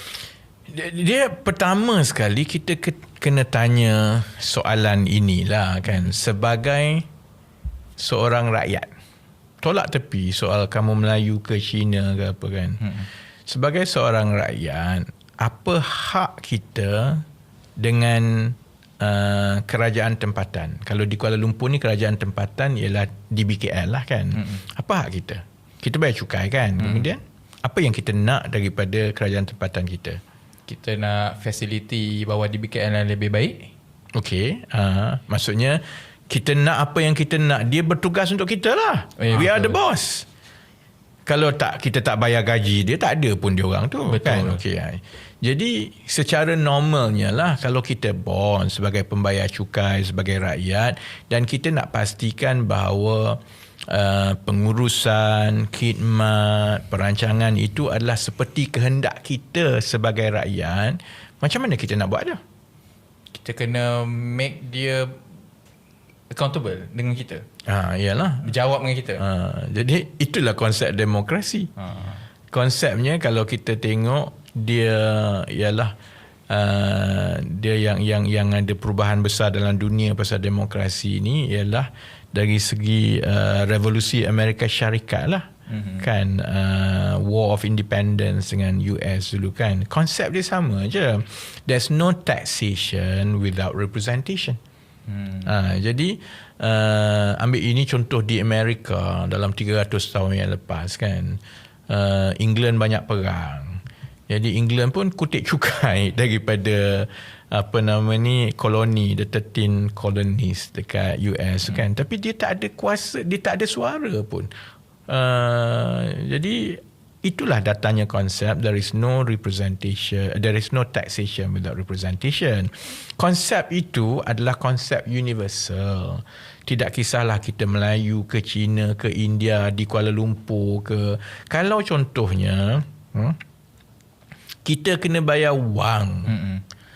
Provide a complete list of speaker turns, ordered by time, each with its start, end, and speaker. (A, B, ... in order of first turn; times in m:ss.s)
0:00.7-0:07.0 A
0:08.0-0:08.9 A
0:09.6-0:17.2 A
0:17.8-0:30.2 A
0:24.3-0:24.6 B
0:26.8-0:27.1 B
0:30.7-0:33.7 B
0:34.1-0:40.3 A
0:39.2-0:39.8 B
0:41.2-1:02.4 A
0:44.0-0:44.6 B
1:03.3-1:05.2 B
1:06.3-1:07.4 B
1:07.6-1:08.5 A
1:08.4-1:09.2 B
1:09.2-1:11.7 A
1:11.8-1:12.2 B
1:12.5-1:15.9 A
1:16.5-1:25.5 A
1:25.7-1:26.0 B
1:26.0-1:34.6 A
1:35.1-1:35.5 B
1:35.4-1:54.5 A
1:55.1-2:13.4 A
2:14.6-2:16.3 A
2:16.3-2:16.6 B